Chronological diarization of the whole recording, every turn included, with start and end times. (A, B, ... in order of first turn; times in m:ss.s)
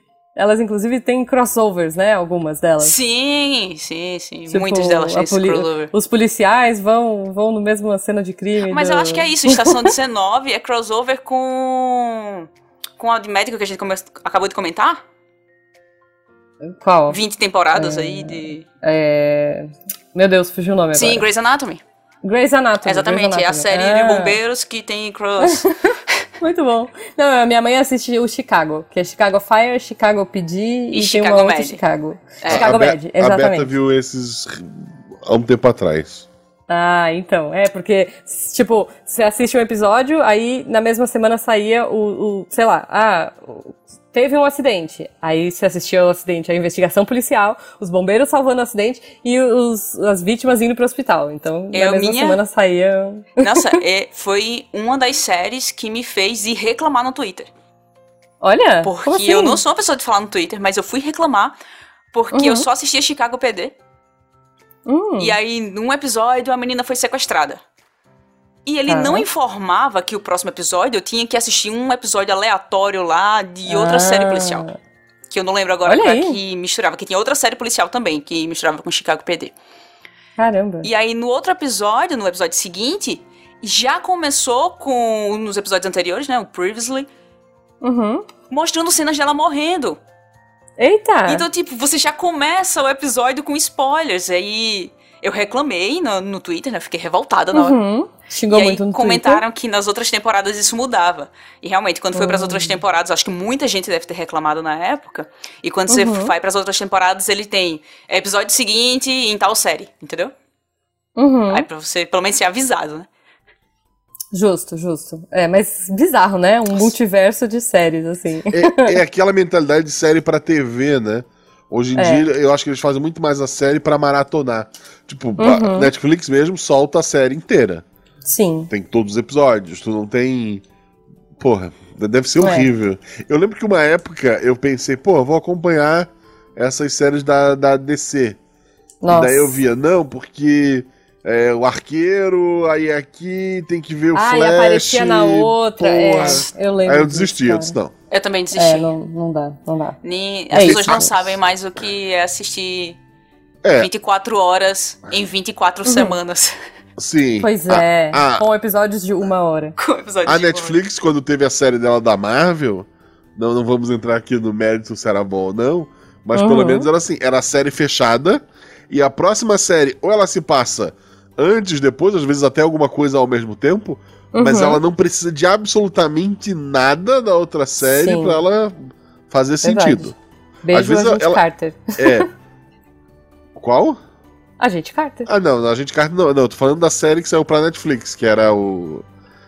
0:00.4-0:02.9 A
0:02.8-0:05.9 B
0:04.5-0:09.9 A
0:08.6-0:12.5 B
0:13.0-0:15.0 B
0:16.7-0:17.2 A
0:17.1-0:18.6 B
0:17.7-0:21.2 A
0:20.9-0:21.8 B
0:22.2-0:24.4 A
0:22.8-0:25.7 B
0:25.4-0:25.7 A
0:26.4-0:33.7 A
0:30.9-0:31.8 B
0:32.4-0:32.7 B
0:32.5-0:36.3 C
0:36.7-0:53.8 A
0:51.7-0:52.4 B
0:53.4-0:57.5 B
0:58.4-0:59.6 A
0:58.8-1:01.6 B
1:02.1-1:03.7 B
1:02.3-1:02.7 A
1:04.8-1:05.4 A
1:05.2-1:07.6 B
1:08.6-1:14.6 B
1:08.9-1:09.2 A
1:13.7-1:14.8 A
1:15.3-1:19.5 B
1:15.8-1:16.4 A
1:20.4-1:20.9 A
1:20.8-1:27.1 B
1:27.8-1:28.2 A
1:28.5-1:30.0 B
1:30.8-1:31.4 A
1:31.3-1:37.8 B
1:37.5-1:39.4 A
1:38.5-1:50.3 B
1:42.1-1:42.8 A
1:45.9-1:46.3 A
1:51.2-1:51.6 A
1:51.5-1:53.1 B
1:54.3-1:59.0 A
1:58.5-2:07.8 C
2:02.0-2:02.3 A
2:05.4-2:05.9 A
2:08.2-2:08.7 A
2:08.7-2:10.6 C
2:11.4-2:18.4 C
2:12.4-2:12.7 A
2:19.0-2:19.6 A
2:19.1-2:27.9 C
2:24.1-2:27.8 A
2:28.1-2:28.9 B
2:28.5-2:30.0 A
2:30.0-2:33.0 B
2:30.5-2:31.1 A
2:30.6-2:31.2 C
2:33.6-2:33.9 C
2:33.8-2:36.5 B
2:35.8-2:36.1 A
2:37.0-2:38.4 C
2:37.4-2:39.7 A
2:39.8-2:40.8 B
2:40.2-3:00.1 C
2:46.3-2:46.9 A
2:54.3-2:54.8 A
2:57.8-2:58.4 A
2:59.6-3:00.1 A
3:00.6-3:02.3 A
3:00.7-3:01.4 C
3:02.0-3:02.3 C
3:03.5-3:04.0 C
3:04.6-3:05.3 A
3:05.2-3:09.0 C